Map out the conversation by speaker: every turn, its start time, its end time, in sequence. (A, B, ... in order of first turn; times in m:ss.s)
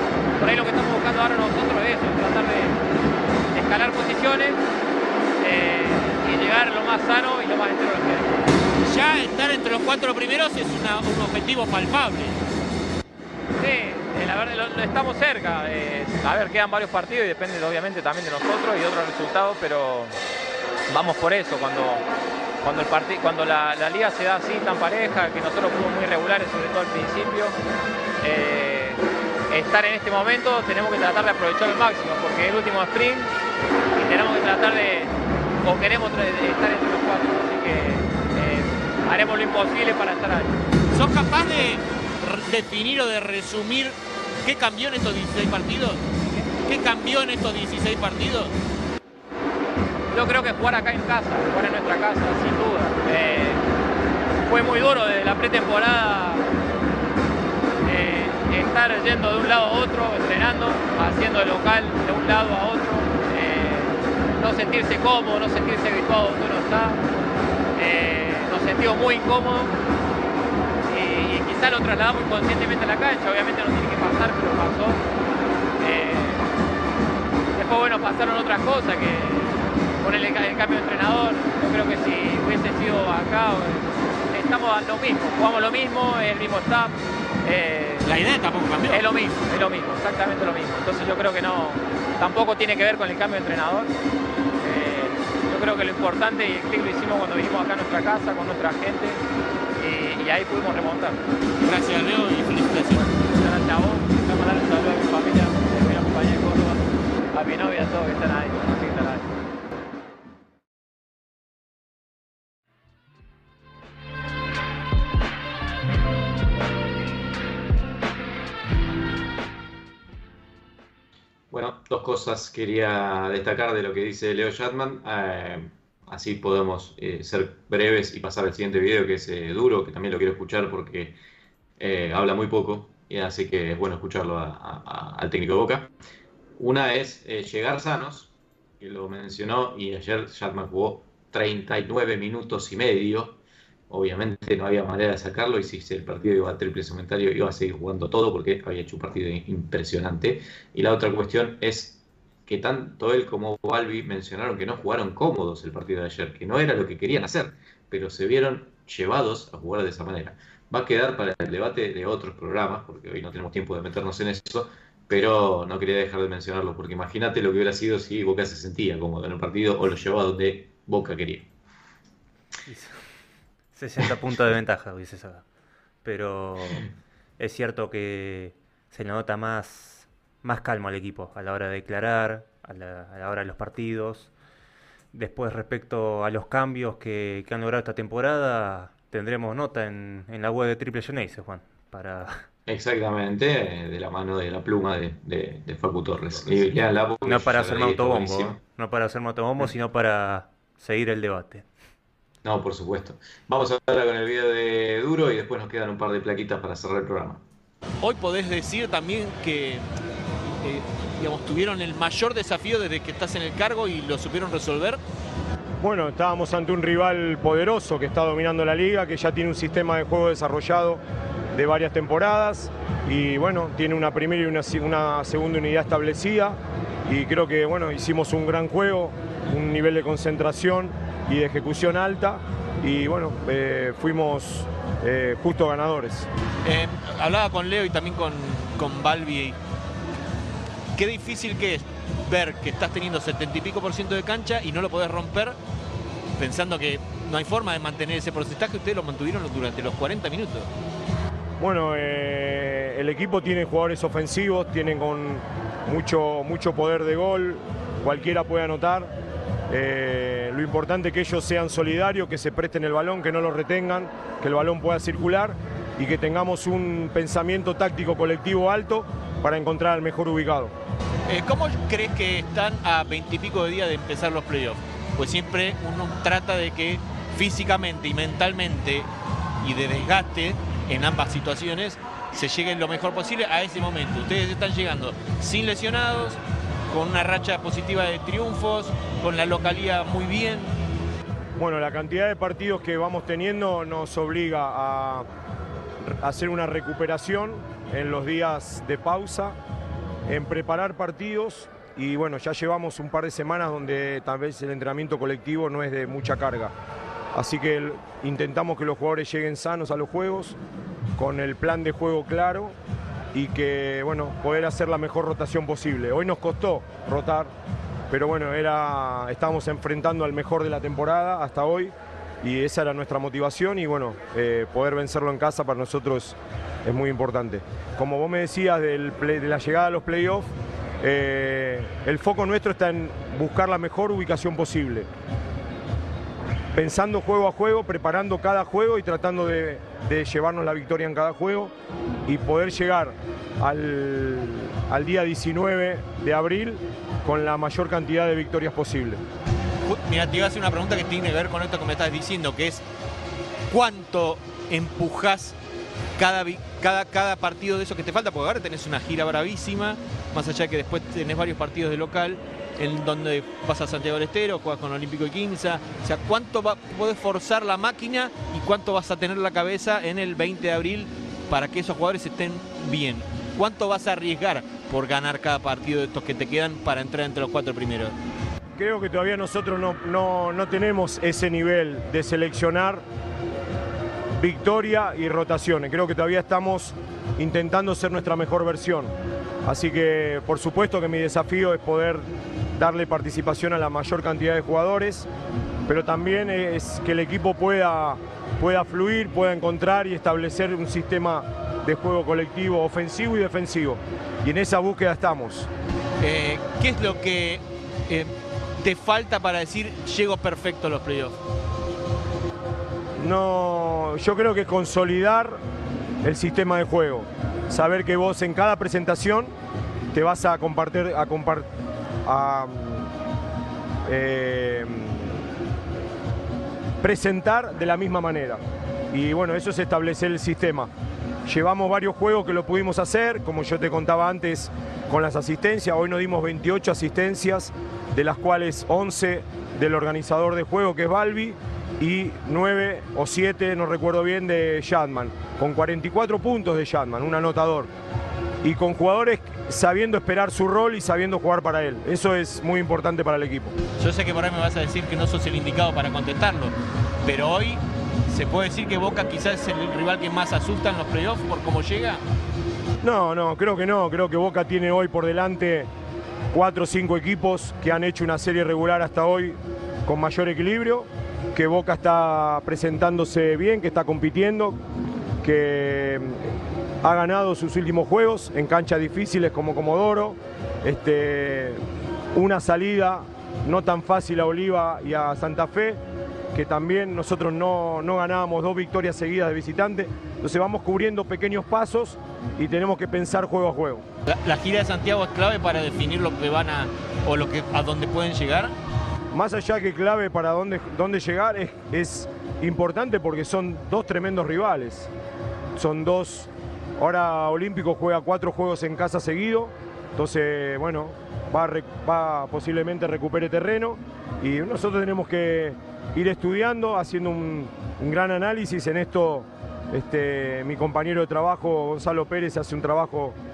0:00.4-0:02.8 A
0:03.5-0:04.6 A
0:05.4-0:08.4 A
0:08.8-0:12.4 B
0:13.6-0:20.2 A
0:20.9-0:22.0 A
0:22.6-0:27.6 A
0:28.2-0:33.3 A
0:33.9-0:40.6 A
0:40.9-0:46.0 B
0:46.6-0:48.5 B
0:50.1-0:53.6 A
0:54.4-0:56.4 A
0:57.8-1:07.0 A
1:07.8-1:09.8 A
1:10.9-1:15.0 A
1:15.8-1:16.4 A
1:17.6-1:28.1 A
1:28.0-1:29.1 B
1:28.9-1:33.9 A
1:34.6-1:39.2 A
1:39.8-1:41.2 A
1:41.6-1:43.2 B
1:43.2-1:49.3 A
2:01.5-2:11.2 C
2:11.8-2:15.9 C
2:16.6-2:23.4 C
2:23.9-2:51.5 C
2:52.7-2:53.1 D
2:53.7-2:55.4 D
2:56.0-3:04.3 D
3:05.1-3:12.5 D
3:12.6-3:18.6 C
3:17.2-3:21.7 D
3:22.4-3:27.4 C
3:28.0-3:29.8 B
3:30.6-3:35.0 B
3:35.8-3:41.0 E
3:41.5-3:46.6 E
3:47.1-3:56.3 E
3:56.6-3:59.6 B
4:00.9-4:05.6 B
4:06.4-4:10.7 B
4:11.6-4:19.1 E
4:19.7-4:30.7 E
4:31.3-4:39.1 B
4:39.6-4:50.8 B
4:51.6-4:55.3 E
4:56.2-4:59.6 E
5:00.3-5:06.7 E
5:07.3-5:10.6 E
5:11.2-5:12.7 E
5:13.3-5:17.5 E
5:18.1-5:30.5 E
5:31.0-5:35.1 E
5:36.7-5:41.7 E
5:42.3-5:49.2 E
5:49.8-5:52.8 B
5:53.7-5:55.6 B
5:56.2-6:18.1 B
6:18.8-6:23.0 E
6:24.4-6:29.1 E
6:29.6-6:32.2 E
6:32.8-6:35.3 E
6:35.9-6:45.7 E
6:46.2-6:51.4 B
6:53.2-6:55.6 E
6:56.2-6:59.5 E
7:00.1-7:01.7 E
7:02.2-7:03.1 E
7:04.0-7:05.4 E
7:07.0-7:08.6 E
7:09.1-7:10.9 E
7:11.4-7:27.9 E
7:28.6-7:33.7 E
7:34.0-7:42.2 B
7:43.0-7:45.9 E
7:46.5-7:54.8 E
7:55.4-7:56.5 E
7:57.0-8:01.8 E
8:02.3-8:06.0 E
8:06.5-8:14.0 E
8:14.3-8:18.7 B
8:19.3-8:25.1 E
8:25.8-8:43.4 E